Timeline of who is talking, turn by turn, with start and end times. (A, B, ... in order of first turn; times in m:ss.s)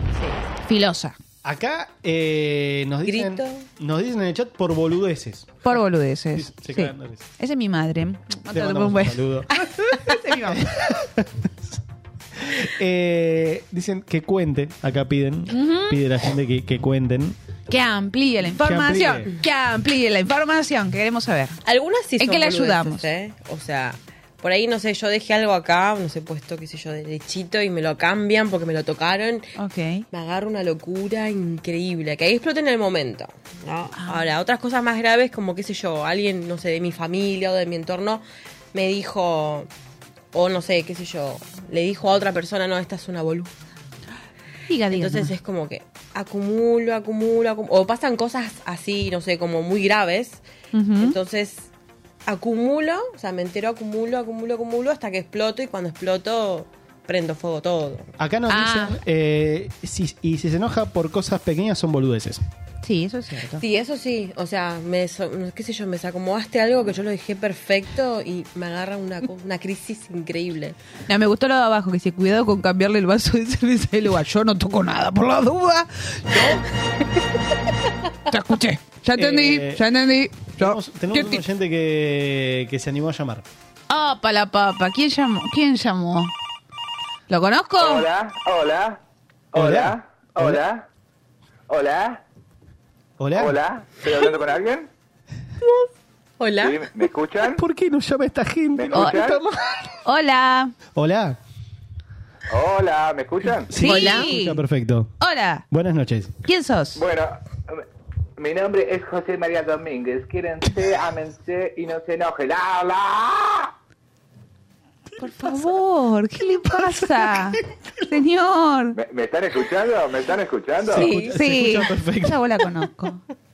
0:00.2-0:00.4 A
0:00.6-0:01.1 B
0:01.4-0:05.8 C
0:03.0-0:03.6 A
0:05.6-0:09.2 B
0:06.3-0:07.3 C
0:08.5-0:11.8 C
0:10.1-0:10.7 B
0:12.4-0:17.4 C
0:15.5-0:16.0 B
0:17.7-0:21.6 B
0:18.6-0:19.3 C
0:21.6-0:29.5 A
0:22.2-0:23.0 B
0:29.6-0:30.0 B
0:30.1-0:39.7 A
0:34.0-0:34.2 B
0:40.3-0:43.5 A
0:44.7-0:45.3 B
0:44.9-0:50.4 A
0:50.7-0:51.2 B
0:51.0-0:51.7 A
0:52.2-0:58.1 A
0:58.2-1:02.4 C
0:58.5-0:59.0 B
1:02.8-1:03.6 B
1:03.6-1:10.8 A
1:11.1-1:16.6 B
1:18.3-1:21.4 B
1:19.1-1:19.8 C
1:20.6-1:23.4 C
1:23.9-1:26.3 B
1:27.3-1:28.1 B
1:27.8-1:29.0 D
1:29.5-1:30.9 D
1:29.5-1:30.6 C
1:31.7-1:32.2 D
1:33.2-1:33.6 C
1:33.4-1:34.9 D
1:36.4-1:37.1 A
1:36.6-1:37.6 D
1:37.5-1:39.9 C
1:38.7-1:39.4 D
1:38.9-1:39.2 B
1:40.0-1:40.7 B
1:40.9-1:41.4 C
1:42.5-1:43.7 D
1:43.5-1:45.1 C
1:43.8-1:44.6 B
1:43.8-1:44.2 A
1:45.2-1:45.6 B
1:45.7-1:46.3 C
1:46.4-1:47.0 B
1:46.9-1:47.8 D
1:48.4-1:53.7 D
1:55.2-1:59.0 B
1:55.2-1:55.6 C
1:56.7-1:57.5 C
1:58.9-2:01.0 D
2:00.9-2:02.4 C
2:00.9-2:01.4 A
2:01.2-2:03.2 B